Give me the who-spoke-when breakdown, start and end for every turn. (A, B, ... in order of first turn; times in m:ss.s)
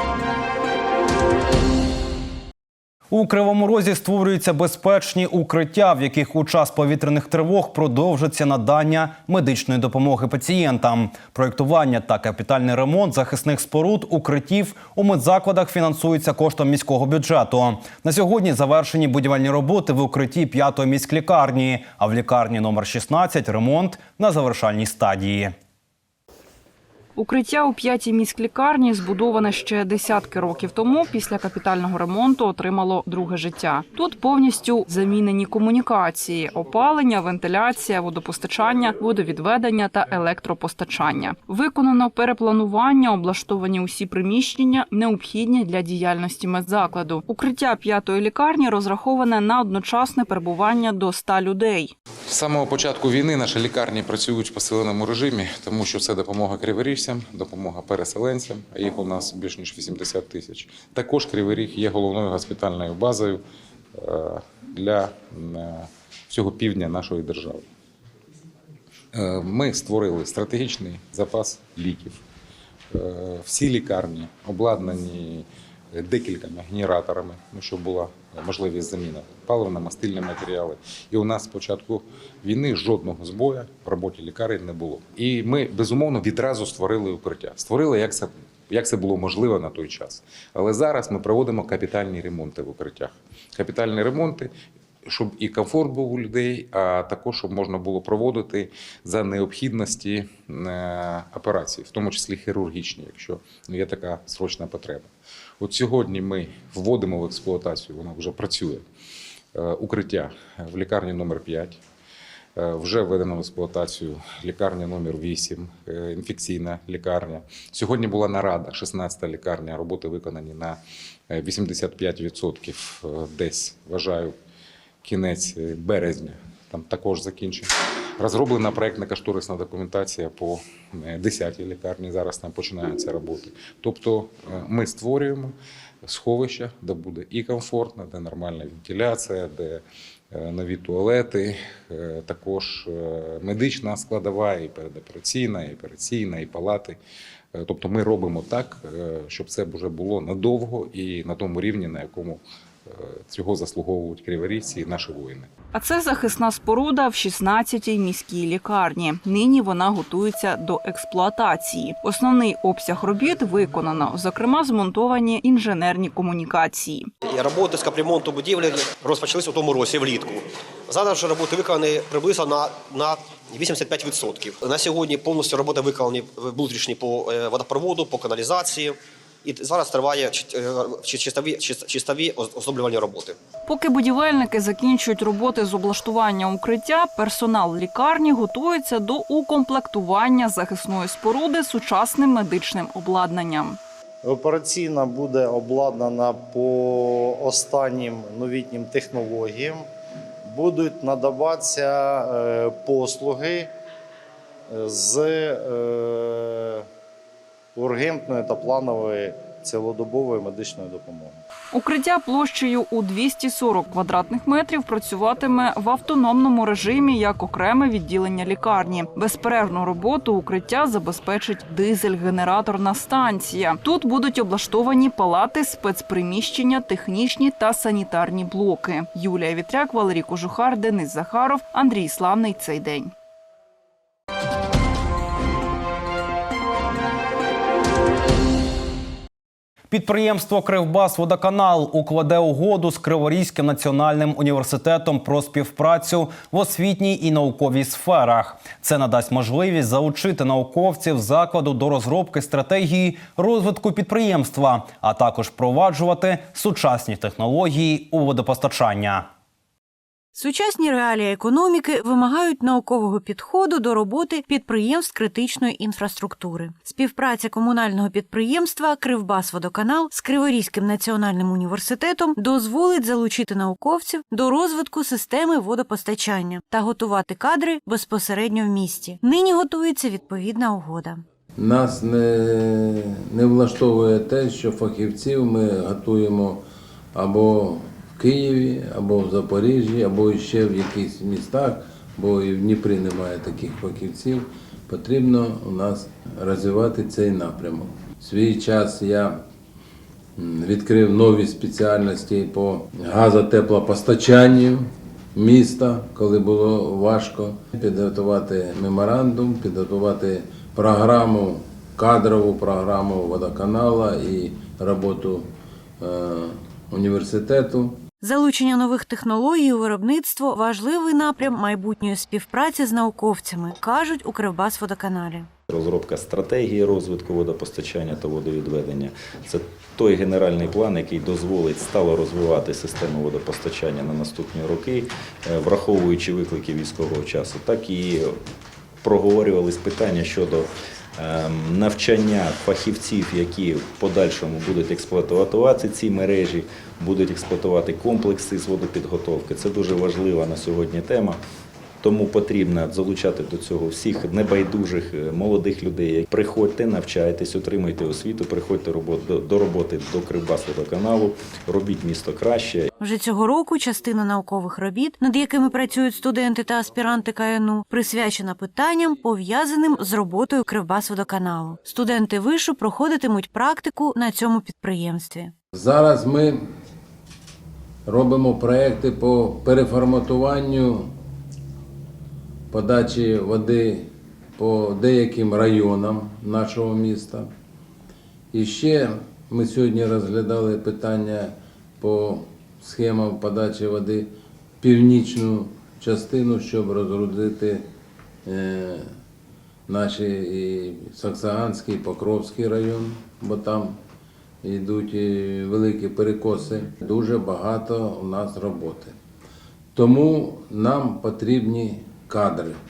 0:03.1-0:25.5 A
0:27.2-0:51.9 B
0:52.3-1:03.4 C
1:03.9-1:07.6 C
1:09.1-1:12.2 C
1:12.9-1:34.5 C
1:35.0-1:48.8 C
1:49.5-1:51.8 C
1:52.6-2:00.8 C
2:01.3-2:04.3 C
2:05.0-2:27.0 C
2:27.5-2:35.5 C
2:35.7-2:47.1 B
2:47.2-3:03.4 D
3:03.7-3:13.8 B
3:14.2-3:19.9 E
3:20.4-3:23.7 E
3:24.7-3:26.8 E
3:27.7-3:31.4 E
3:31.7-3:53.1 B
3:59.9-4:19.2 A
4:20.3-4:41.2 F
4:41.6-4:59.4 G
5:00.4-5:18.0 G
5:18.2-5:25.5 F
5:25.7-5:38.4 H
5:39.0-5:51.4 H
5:52.0-6:02.9 H
6:03.0-6:15.5 F
6:15.7-6:16.7 G
6:18.0-6:21.1 G
6:22.7-6:27.5 G
6:28.5-6:37.9 G
6:38.4-6:39.1 G
6:39.9-6:44.0 G
6:44.6-6:49.2 G
6:49.9-6:52.8 G